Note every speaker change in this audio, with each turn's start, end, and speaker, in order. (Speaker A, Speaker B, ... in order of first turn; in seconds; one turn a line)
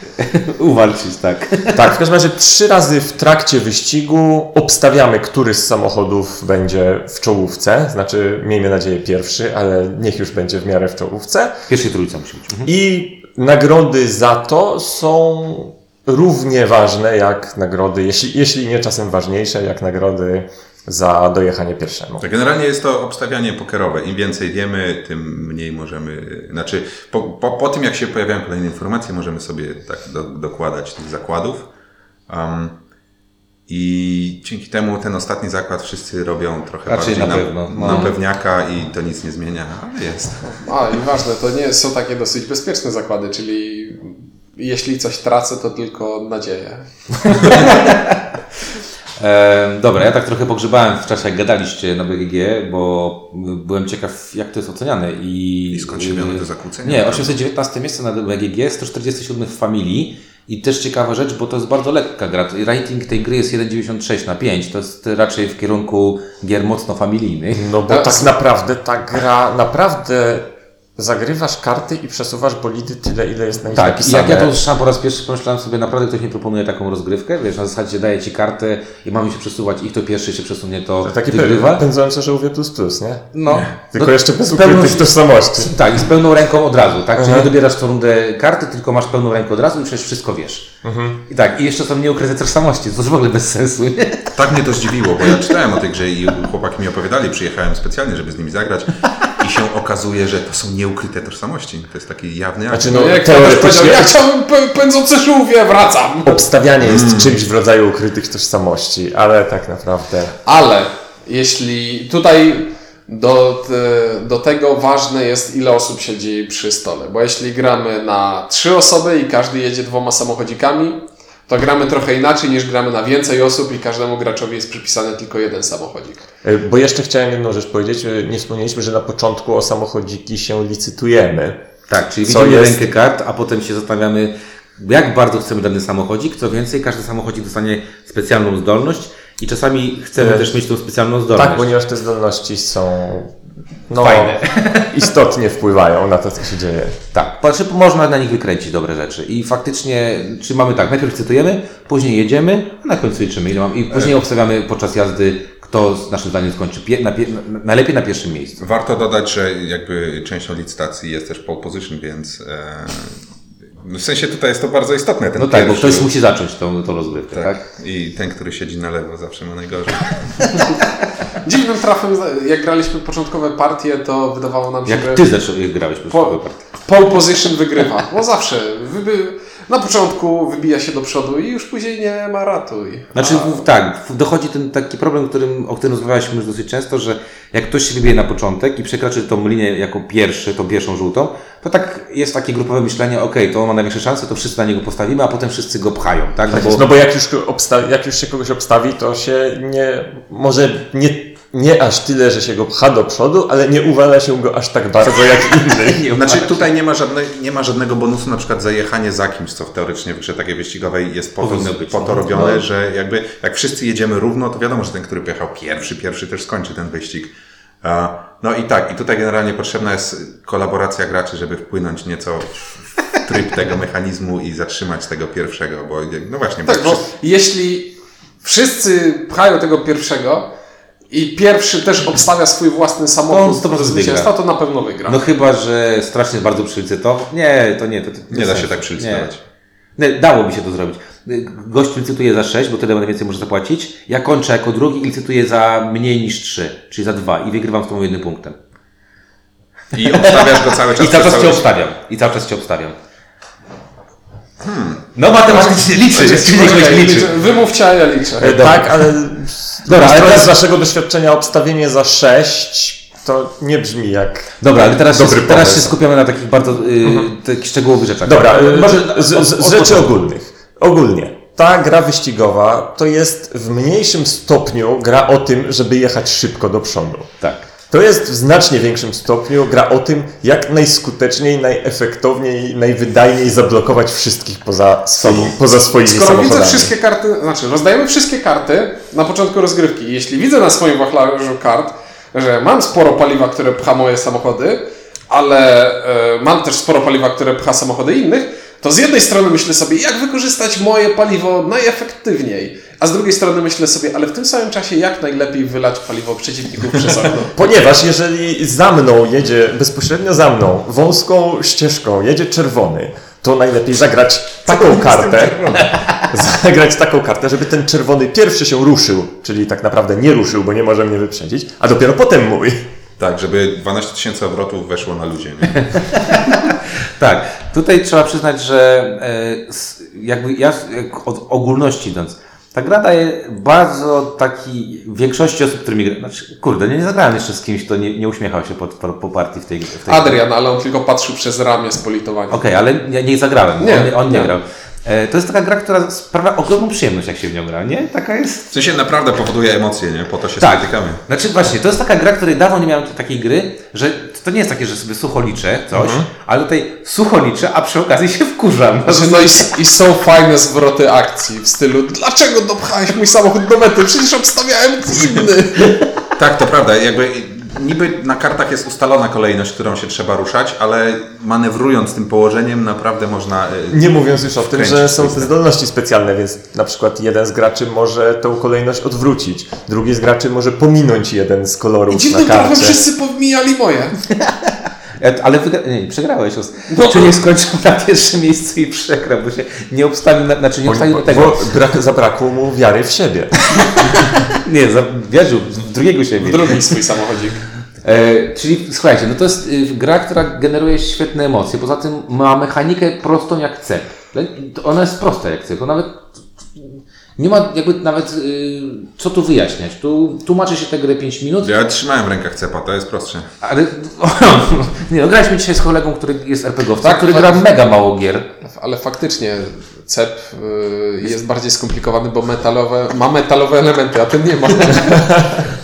Speaker A: 0.2-1.8
Speaker B: 1.7-11.5
Speaker A: 11.7-12.7
Speaker B: 12.6-22.2
Speaker C: 22.2-31.7
Speaker C: 32.3-32.8
Speaker C: 33.7-40.6
Speaker A: 36.9-38.1
Speaker D: 40.6-47.7
Speaker A: 47.4-48.2
Speaker A: 49.2-67.8
Speaker C: 55.7-57.3
Speaker B: 67.5-74.5
Speaker D: 67.9-68.2
Speaker A: 73.7-81.8
Speaker B: 81.0-85.7
Speaker A: 83.3-90.7
Speaker B: 87.1-87.5
Speaker B: 90.8-91.2
Speaker A: 91.3-94.3
Speaker C: 94.3-103.1
Speaker B: 102.7-104.2
Speaker D: 102.8-106.4
Speaker B: 106.2-110.3
Speaker C: 106.8-107.3
Speaker D: 110.5-126.3
Speaker B: 126.4-131.6
Speaker A: 131.9-141.7
Speaker B: 132.2-132.8
Speaker B: 140.2-140.5
Speaker B: 141.3-143.3
Speaker B: 143.9-146.9
Speaker A: 144.0-145.0
Speaker A: 147.1-158.6
Speaker C: 158.6-163.2
Speaker C: 163.8-166.1
Speaker A: 165.4-167.6
Speaker C: 167.3-170.6
Speaker A: 170.4-170.7
Speaker D: 171.4-175.2
Speaker A: 174.8-176.6
Speaker D: 176.1-183.6
Speaker A: 183.1-196.8
Speaker B: 196.5-206.0
Speaker A: 205.1-206.6
Speaker C: 206.1-227.0
Speaker A: 211.4-212.6
Speaker D: 226.7-230.5
Speaker D: 231.1-235.2
Speaker A: 233.3-234.3
Speaker A: 235.1-239.3
Speaker C: 238.3-239.4
Speaker A: 240.0-248.6
Speaker C: 249.9-251.7
Speaker A: 250.1-253.0
Speaker C: 254.6-255.0
Speaker A: 255.1-257.3
Speaker D: 255.7-258.6
Speaker B: 258.4-265.9
Speaker A: 258.4-259.1
Speaker A: 259.8-260.5
Speaker A: 264.6-270.1
Speaker B: 268.2-277.3
Speaker A: 277.4-277.6
Speaker B: 277.9-286.9
Speaker A: 285.2-285.5
Speaker D: 286.0-307.5
Speaker B: 307.5-322.9
Speaker D: 314.7-315.9
Speaker A: 315.8-316.3
Speaker C: 323.2-326.0
Speaker A: 325.8-340.4
Speaker D: 340.1-342.6
Speaker A: 342.5-348.7
Speaker D: 343.8-344.5
Speaker C: 348.7-351.2
Speaker A: 350.6-359.7
Speaker B: 355.9-356.2
Speaker D: 359.1-366.1
Speaker C: 366.4-375.5
Speaker B: 373.9-383.0
Speaker D: 382.1-384.2
Speaker A: 384.3-391.7
Speaker D: 386.9-387.3
Speaker B: 390.8-394.2
Speaker A: 394.0-397.0
Speaker D: 396.4-397.6
Speaker A: 398.0-411.7
Speaker C: 411.6-413.5
Speaker A: 413.6-418.4
Speaker D: 417.0-417.6
Speaker D: 418.6-425.5